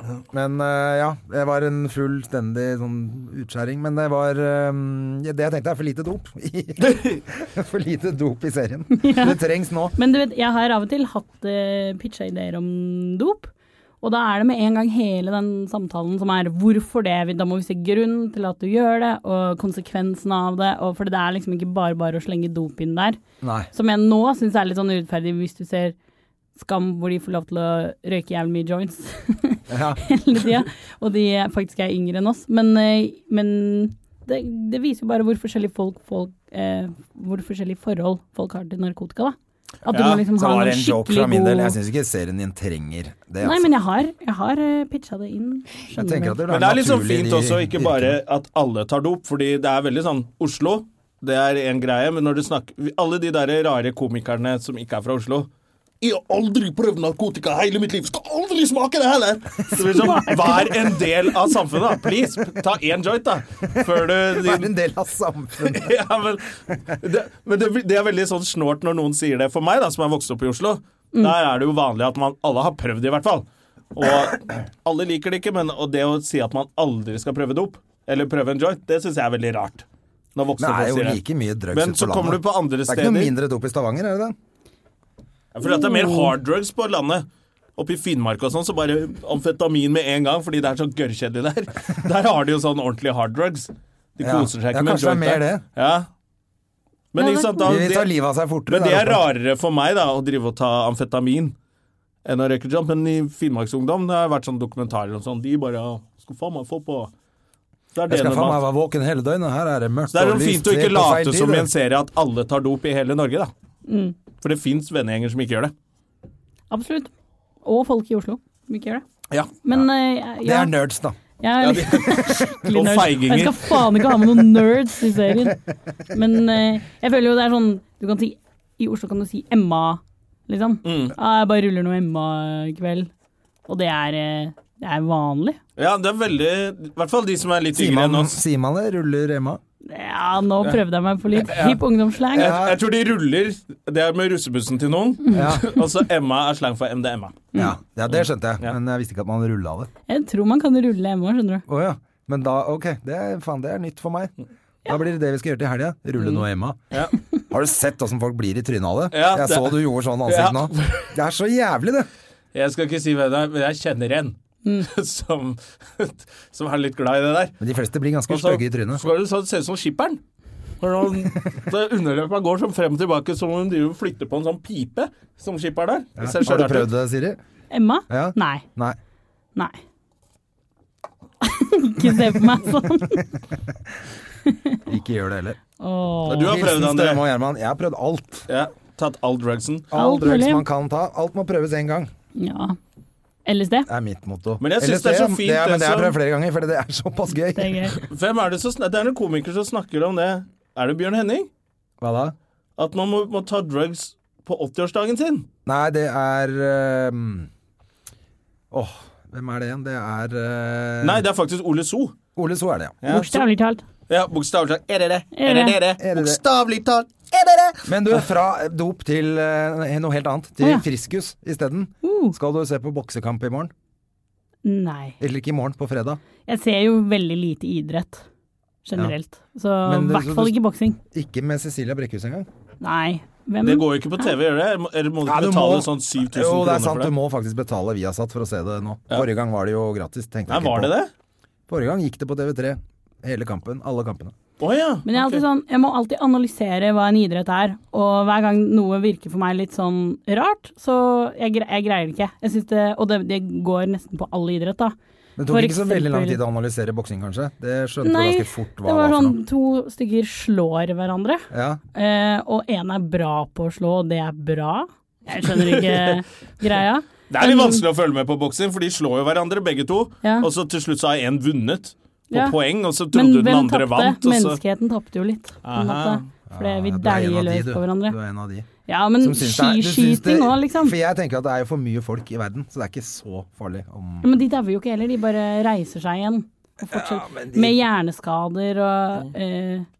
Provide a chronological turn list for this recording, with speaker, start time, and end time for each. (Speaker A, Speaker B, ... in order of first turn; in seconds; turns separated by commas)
Speaker A: 0.3-9.9, Speaker B: 6.8-7.1, Speaker C: 8.9-9.4, Speaker C: 10.0-23.2, Speaker A: 23.4-23.7, Speaker C: 23.7-25.9, Speaker C: 26.6-41.8, Speaker A: 29.7-30.0, Speaker B: 39.9-40.2, Speaker A: 40.3-43.7, Speaker C: 43.4-46.4, Speaker A: 46.0-48.2, Speaker B: 46.5-55.5, Speaker B: 56.0-64.7, Speaker C: 60.1-60.7, Speaker A: 63.8-66.0, Speaker B: 65.6-81.2, Speaker A: 80.6-84.3, Speaker B: 81.7-83.3, Speaker B: 85.5-87.3, Speaker C: 85.6-86.3, Speaker B: 87.8-96.1, Speaker A: 94.2-95.6, Speaker B: 97.1-98.1, Speaker C: 97.2-97.8, Speaker A: 97.6-99.2, Speaker B: 98.7-101.5, Speaker B: 102.2-107.1, Speaker B: 108.0-108.6, Speaker A: 108.1-111.7, Speaker B: 110.1-113.5, Speaker C: 113.9-114.2, Speaker B: 114.4-115.7, Speaker C: 116.7-117.1, Speaker C: 117.6-119.0, Speaker C: 119.6-120.7, Speaker A: 120.4-121.2, Speaker C: 121.4-125.6, Speaker B: 121.6-123.8, Speaker C: 126.1-133.1, Speaker B: 130.8-131.1, Speaker C: 133.7-135.6, Speaker B: 135.8-138.4, Speaker A: 137.7-139.6, Speaker C: 139.8-142.6, Speaker B: 141.3-147.5, Speaker A: 142.3-142.8, Speaker A: 145.3-145.7, Speaker A: 147.6-149.9, Speaker C: 150.1-151.6, Speaker A: 151.7-154.3, Speaker A: 154.9-156.8, Speaker A: 157.5-162.1, Speaker B: 159.1-161.1, Speaker B: 162.5-167.6, Speaker A: 167.6-169.1, Speaker B: 168.3-170.2, Speaker B: 170.8-176.9, Speaker A: 176.2-177.4, Speaker C: 177.7-178.6, Speaker A: 178.1-179.0, Speaker C: 179.6-179.8, Speaker C: 181.4-183.3, Speaker C: 184.5-184.8, Speaker A: 184.9-185.6, Speaker C: 185.8-186.6, Speaker B: 186.3-187.2, Speaker A: 186.3-188.5, Speaker B: 188.5-189.9, Speaker A: 189.9-192.1, Speaker C: 189.9-190.6, Speaker C: 192.4-192.8, Speaker C: 193.5-193.9, Speaker A: 193.9-198.0, Speaker B: 194.6-196.2, Speaker C: 197.6-198.0, Speaker B: 198.0-201.5, Speaker A: 202.0-202.3, Speaker B: 202.8-205.5, Speaker A: 205.7-207.5, Speaker A: 208.7-211.2, Speaker B: 211.0-212.2, Speaker A: 212.3-213.0, Speaker B: 213.0-213.4, Speaker C: 213.1-213.8, Speaker B: 214.1-218.2, Speaker C: 215.3-215.8, Speaker A: 216.0-216.4, Speaker A: 217.9-223.7, Speaker C: 222.0-222.3, Speaker C: 224.7-225.2, Speaker A: 225.2-226.2, Speaker C: 226.5-228.2, Speaker C: 228.8-231.0, Speaker A: 229.8-230.6, Speaker A: 231.1-232.5, Speaker C: 232.8-234.3, Speaker B: 233.6-237.1, Speaker A: 235.2-240.9, Speaker B: 240.5-241.1, Speaker A: 241.7-244.3, Speaker B: 244.6-245.4, Speaker C: 245.1-254.9, Speaker A: 255.4-259.4, Speaker C: 255.5-256.4, Speaker C: 258.0-267.8, Speaker A: 261.5-261.8, Speaker B: 265.5-266.2, Speaker B: 267.3-274.6, Speaker C: 270.2-270.5, Speaker C: 272.3-272.6, Speaker C: 273.1-278.2, Speaker B: 275.6-276.3, Speaker A: 276.5-278.7, Speaker C: 278.9-280.9, Speaker A: 279.2-284.3, Speaker C: 284.2-289.9, Speaker A: 286.9-287.8